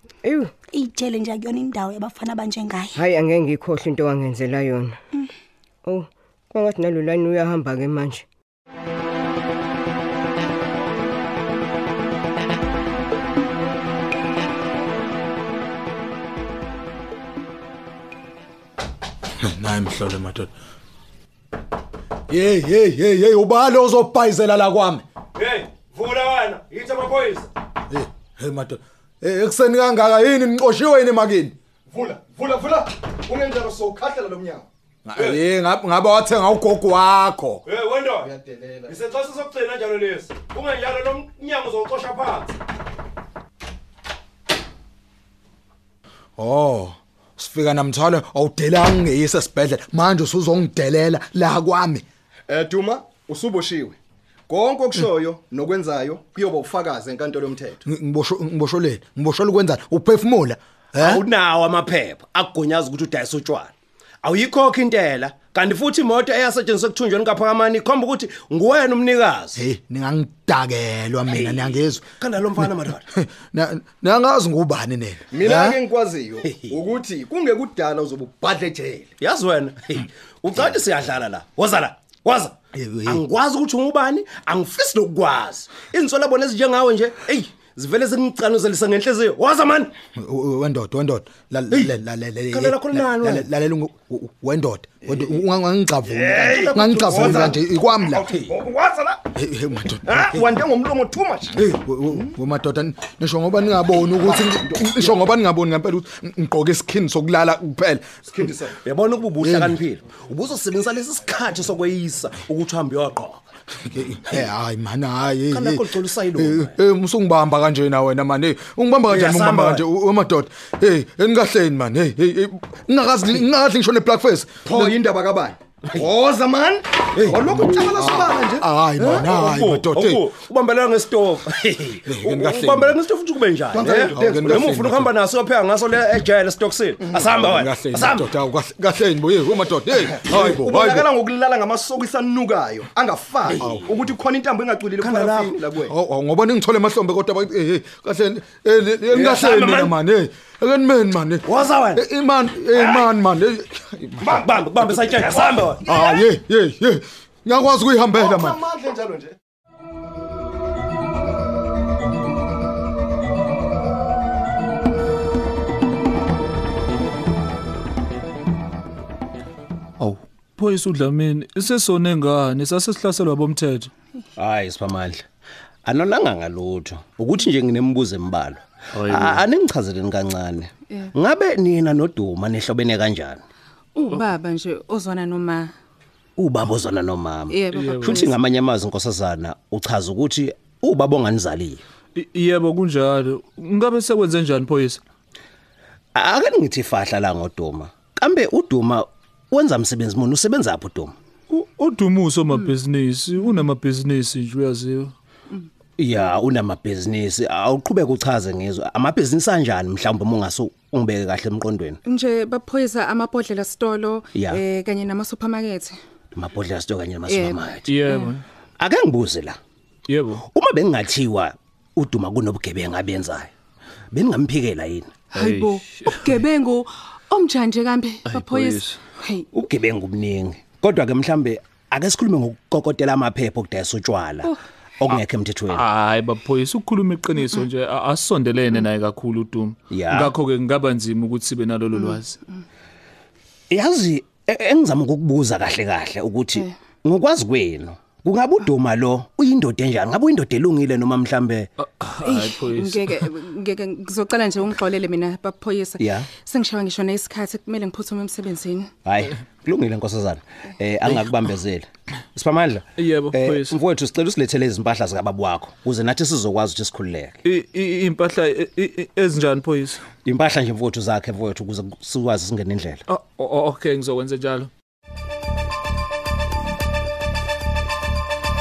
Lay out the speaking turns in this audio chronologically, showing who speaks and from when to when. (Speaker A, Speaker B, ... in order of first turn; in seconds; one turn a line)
Speaker A: 0.2-0.5
Speaker B: 0.7-3.0
Speaker A: 2.9-5.0
Speaker A: 5.8-8.2
Speaker C: 19.4-20.5
Speaker C: 22.3-25.0
Speaker D: 25.4-27.5
Speaker C: 27.9-31.5
Speaker E: 31.9-34.6
Speaker C: 35.0-37.6
Speaker D: 35.1-35.4
Speaker D: 37.6-38.3
Speaker E: 38.2-39.0
Speaker D: 38.9-42.5
Speaker C: 46.4-52.0
Speaker E: 52.5-54.0
Speaker E: 54.5-57.8
Speaker C: 57.9-61.2
Speaker D: 61.0-69.6
Speaker C: 69.5-72.0
Speaker D: 71.3-73.1
Speaker C: 73.1-75.8
Speaker E: 75.3-79.1
Speaker D: 76.5-76.7
Speaker D: 79.2-82.5
Speaker C: 82.7-83.2
Speaker D: 83.0-89.9
Speaker C: 90.2-98.3
Speaker D: 92.5-93.5
Speaker D: 96.0-97.6
Speaker E: 96.8-99.2
Speaker D: 98.3-98.6
Speaker C: 99.3-100.6
Speaker E: 100.1-101.7
Speaker C: 101.5-108.4
Speaker E: 104.3-105.1
Speaker E: 108.3-108.8
Speaker D: 108.8-113.4
Speaker C: 109.4-109.8
Speaker C: 113.8-125.0
Speaker D: 115.5-116.8
Speaker D: 119.1-119.8
Speaker E: 124.6-129.2
Speaker D: 127.1-127.6
Speaker C: 127.3-130.2
Speaker D: 129.0-138.3
Speaker C: 132.0-133.0
Speaker E: 133.7-134.7
Speaker C: 134.0-135.1
Speaker C: 137.1-141.1
Speaker E: 140.1-145.9
Speaker D: 143.4-143.9
Speaker C: 143.6-143.9
Speaker D: 145.0-145.6
Speaker C: 145.8-154.4
Speaker D: 149.1-149.9
Speaker D: 151.4-152.0
Speaker D: 154.2-155.8
Speaker E: 154.9-156.2
Speaker C: 155.8-158.6
Speaker E: 158.2-159.3
Speaker F: 170.0-173.9
Speaker D: 174.4-175.2
Speaker D: 175.8-183.4
Speaker F: 178.9-179.4
Speaker G: 183.9-185.7
Speaker D: 186.4-191.8
Speaker G: 187.5-188.3
Speaker F: 187.7-188.2
Speaker F: 192.2-195.0
Speaker D: 196.1-201.1
Speaker F: 201.5-205.1
Speaker D: 206.0-212.0
Speaker G: 212.1-215.9
Speaker D: 214.3-214.6
Speaker D: 216.3-217.9
Speaker G: 217.3-218.4
Speaker F: 217.8-218.4
Speaker D: 218.8-219.6
Speaker F: 220.1-220.4
Speaker D: 220.5-223.5
Speaker D: 224.1-225.3
Speaker G: 225.3-229.5
Speaker F: 225.3-226.2
Speaker F: 228.3-229.0
Speaker D: 229.5-235.8
Speaker F: 235.7-242.3
Speaker D: 239.9-240.3
Speaker D: 243.7-251.7
Speaker F: 251.8-253.1
Speaker G: 252.2-258.9
Speaker D: 256.0-256.3
Speaker D: 259.0-267.4
Speaker F: 263.0-263.8
Speaker F: 267.4-270.0
Speaker D: 270.2-273.0
Speaker F: 273.1-274.7